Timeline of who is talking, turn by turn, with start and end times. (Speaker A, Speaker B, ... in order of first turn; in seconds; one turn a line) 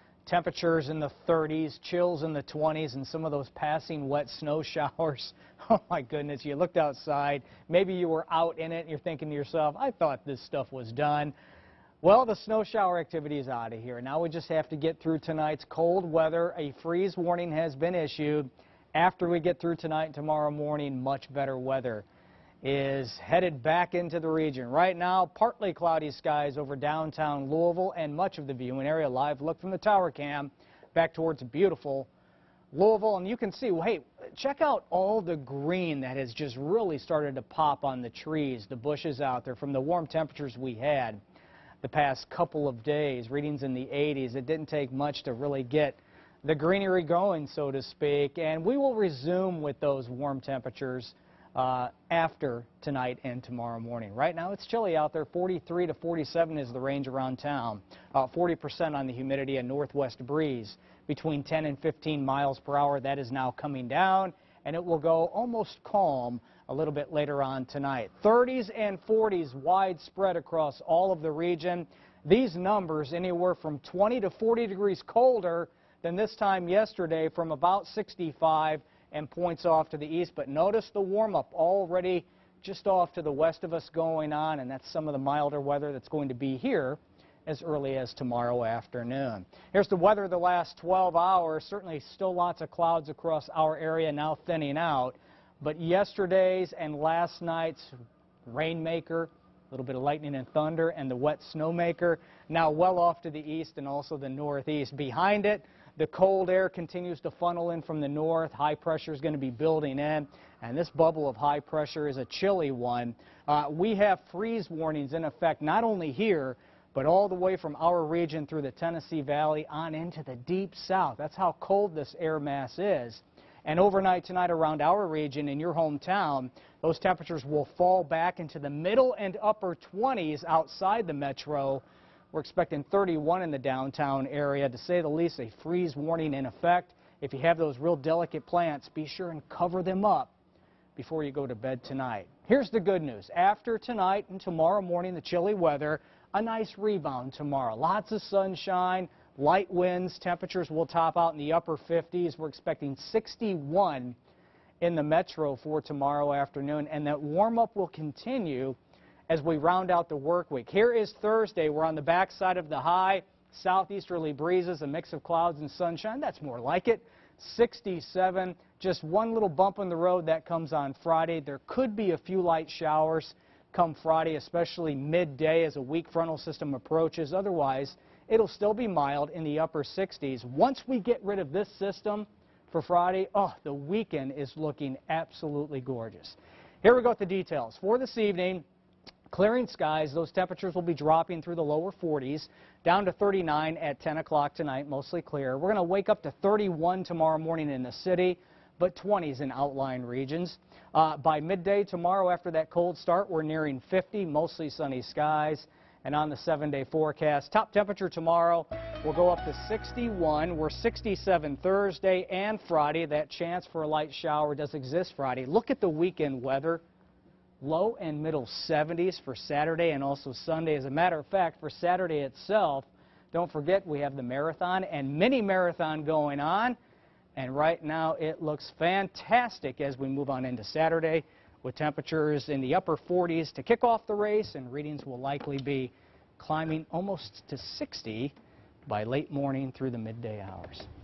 Speaker A: 0.3-11.3
Speaker A: 12.0-22.1
Speaker A: 22.6-32.1
Speaker A: 32.7-41.2
Speaker A: 41.8-97.9
Speaker A: 98.5-140.3
Speaker A: 141.0-154.2
Speaker A: 154.8-158.8
Speaker A: 159.3-188.7
Speaker A: 189.3-216.8
Speaker A: 217.6-226.8
Speaker A: 227.4-238.3
Speaker A: 238.9-240.9